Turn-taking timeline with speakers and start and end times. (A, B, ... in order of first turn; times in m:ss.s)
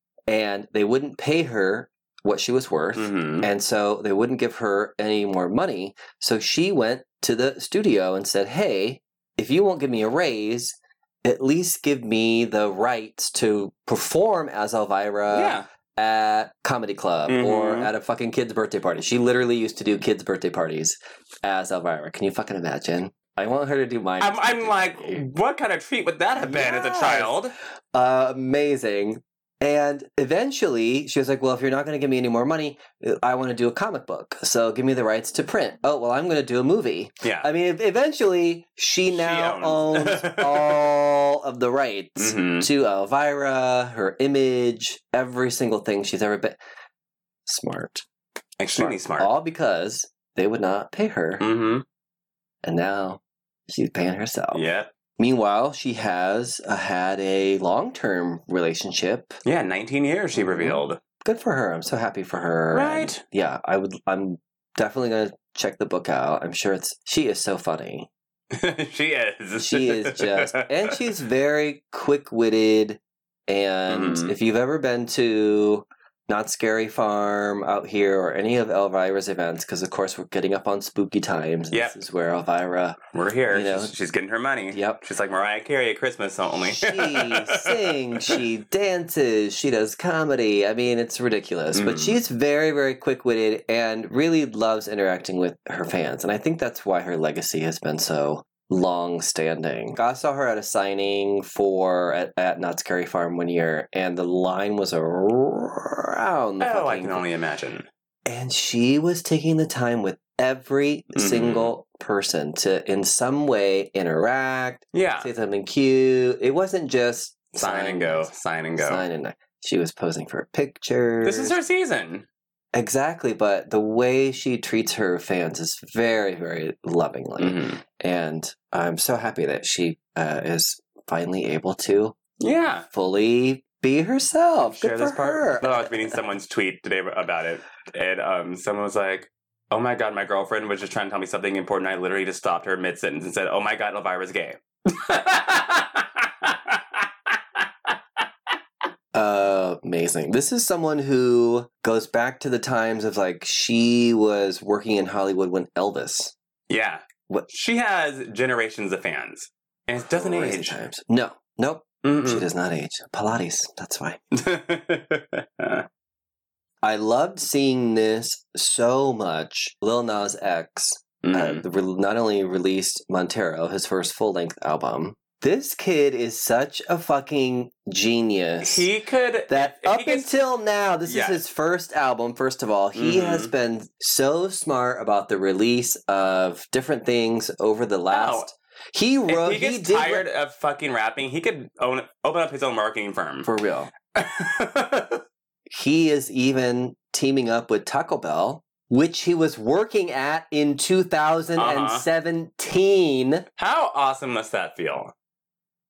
0:00.3-0:25.2 A
0:03.0-0:03.5 B
0:15.3-0:15.6 B
0:17.3-0:17.9 B
0:24.2-0:27.5 B
0:26.4-0:27.4 A
0:27.9-0:46.6 A
0:37.2-0:37.5 B
0:39.1-0:40.8 B
0:42.2-0:42.7 B
0:47.4-0:48.0 A
0:48.6-0:49.3 B
0:48.7-0:51.4 A
0:51.4-0:51.8 B
0:52.6-0:54.6 A
0:54.5-0:54.9 B
0:55.2-0:59.4 A
0:59.4-1:01.0 B
1:00.3-1:08.1 A
1:02.7-1:03.2 B
1:08.5-1:11.1 B
1:09.6-1:23.0 A
1:13.9-1:14.3 B
1:23.1-1:28.4 B
1:23.5-1:23.9 A
1:24.7-1:25.0 A
1:26.6-1:47.2 A
1:31.7-1:32.2 B
1:46.6-1:47.9 B
1:48.2-2:01.6 A
1:51.1-1:51.7 B
1:54.9-1:55.3 B
1:57.6-1:59.0 B
2:01.2-2:02.2 B
2:02.7-2:12.2 A
2:07.4-2:07.8 B
2:12.4-2:12.9 B
2:12.9-2:16.1 A
2:14.6-2:28.2 B
2:29.1-2:36.3 A
2:36.7-2:40.8 B
2:40.0-2:44.2 A
2:42.0-2:42.5 B
2:44.3-2:45.8 B
2:46.8-2:58.9 A
2:51.2-2:51.6 B
2:58.6-3:00.3 B
2:59.5-3:10.2 A
3:01.0-3:01.4 B
3:02.9-3:03.5 B
3:08.1-3:08.5 B
3:09.3-3:13.5 B
3:13.4-3:13.9 A
3:14.1-3:15.2 B
3:15.7-3:23.4 A
3:21.6-3:22.0 B
3:23.6-3:25.1 B